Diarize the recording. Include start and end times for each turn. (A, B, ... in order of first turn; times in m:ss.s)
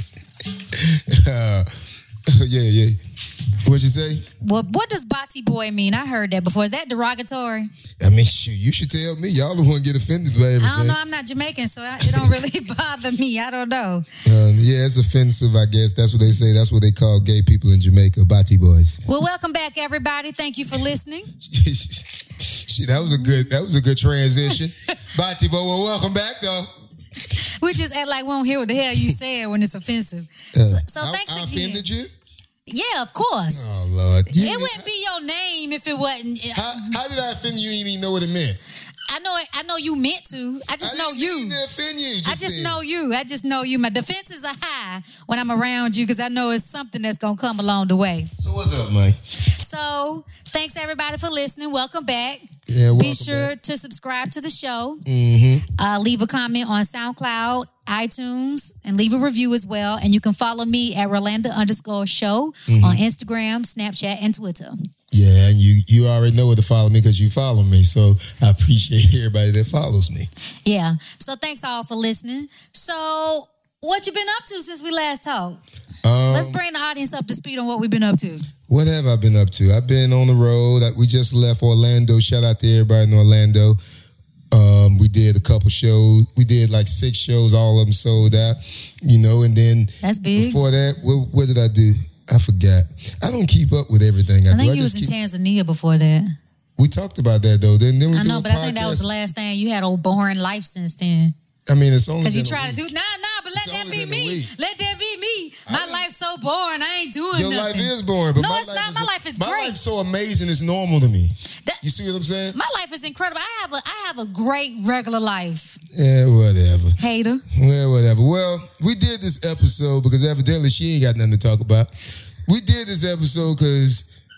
0:00.7-0:01.7 A
0:02.3-0:03.0 A
0:03.6-0:04.2 A
0:04.4-0:07.7 B
0:08.0-0:11.0 A
0:10.6-0:14.1 B
0:12.0-0:12.3 A
0:14.2-0:19.0 A
0:19.1-0:21.3 B
0:21.4-0:26.7 A
0:23.1-0:23.4 B
0:27.3-0:31.8 B
0:30.5-0:32.1 A
0:32.7-0:33.7 B
0:33.5-0:34.9 A
0:34.3-0:37.0 B
0:36.5-0:38.6 A
0:39.1-0:41.6 B
0:40.8-0:42.8 A
0:42.2-0:48.3 B
0:48.4-0:49.2 A
0:49.5-0:52.4 B
0:52.7-0:53.5 A
0:52.9-0:55.0 B
0:55.1-0:55.6 A
0:55.8-1:04.8 B
1:02.7-1:03.0 A
1:05.1-1:10.3 A
1:10.6-1:15.6 B
1:16.0-1:16.6 A
1:16.3-1:18.4 B
1:18.7-1:23.8 A
1:24.5-1:35.1 A
1:30.0-1:30.6 B
1:34.5-1:36.4 B
1:36.8-1:39.0 A
1:38.1-1:41.3 B
1:41.7-1:42.9 A
1:42.2-1:49.8 B
1:43.5-1:44.5 A
1:45.7-1:46.0 A
1:47.3-1:52.6 A
1:52.5-1:55.8 B
1:55.9-1:57.0 A
1:57.0-1:57.4 B
1:57.5-2:01.9 A
2:02.5-2:04.1 A